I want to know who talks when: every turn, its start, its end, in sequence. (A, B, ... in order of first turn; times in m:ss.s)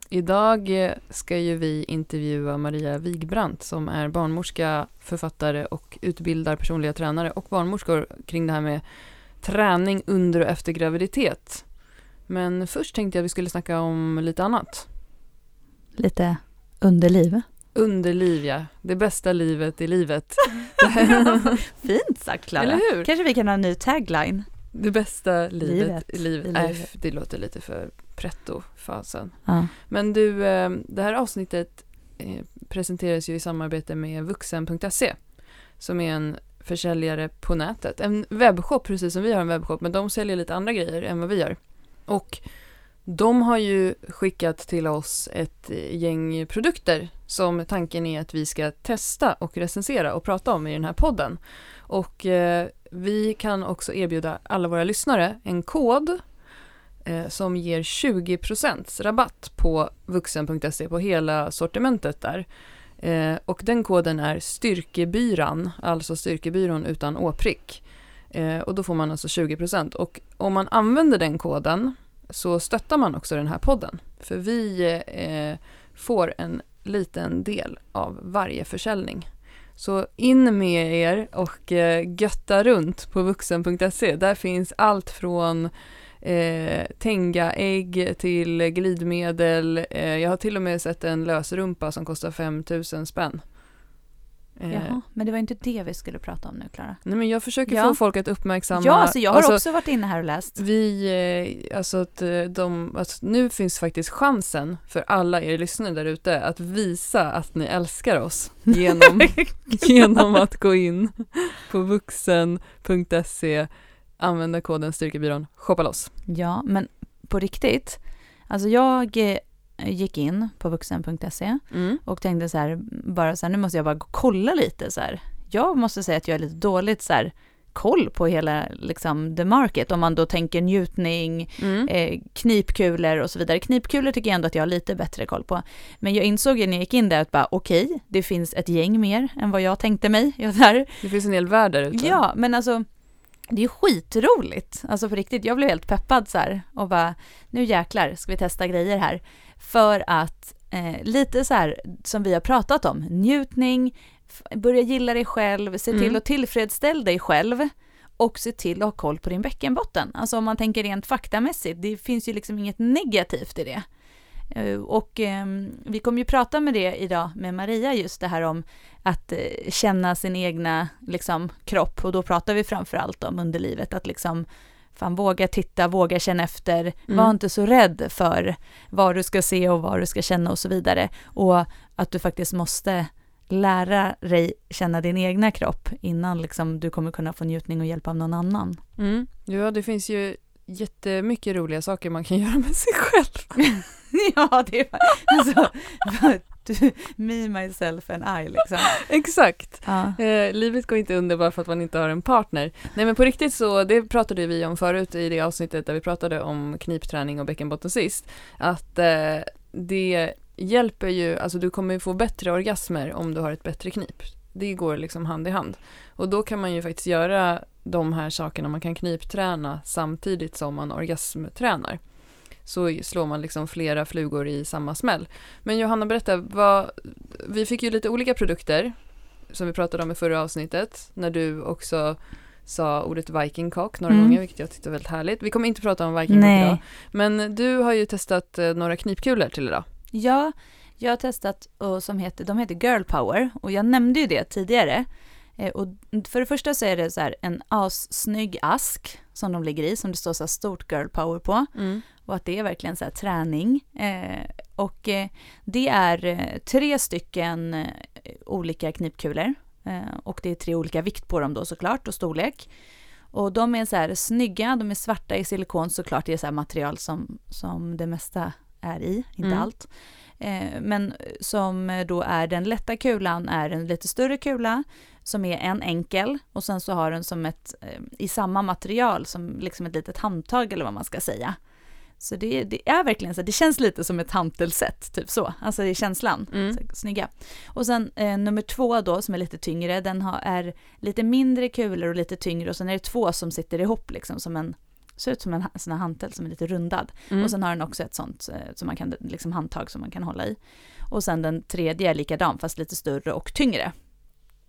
0:00.1-0:14.9 A
0:16.0-0:17.5 B
0:17.7-0:21.4 A
0:21.3-0:24.7 B
0:22.6-0:23.1 A
0:24.7-0:56.4 A
0:25.6-0:26.9 B
0:29.4-0:29.7 B
0:57.0-1:33.6 A
1:34.6-1:35.0 A
1:34.7-1:40.6 B
1:37.0-1:39.8 A
1:40.5-1:56.1 A
1:49.0-1:49.9 B
1:56.2-2:21.1 B
2:01.7-2:02.0 A
2:11.6-2:11.9 A
2:21.0-2:22.2 A
2:21.9-2:22.9 B
2:23.5-2:43.8 B
2:35.9-2:36.2 A
2:44.5-3:08.8 B
2:57.1-2:57.3 A
3:09.0-3:13.8 A
3:13.8-3:19.1 B
3:19.0-3:59.8 A
3:19.8-3:20.2 B
3:54.1-3:54.4 B
3:56.3-3:56.8 B
4:00.1-4:22.7 B
4:11.7-4:12.0 A
4:23.3-5:04.4 B
4:29.4-4:29.7 A
4:46.5-4:46.8 A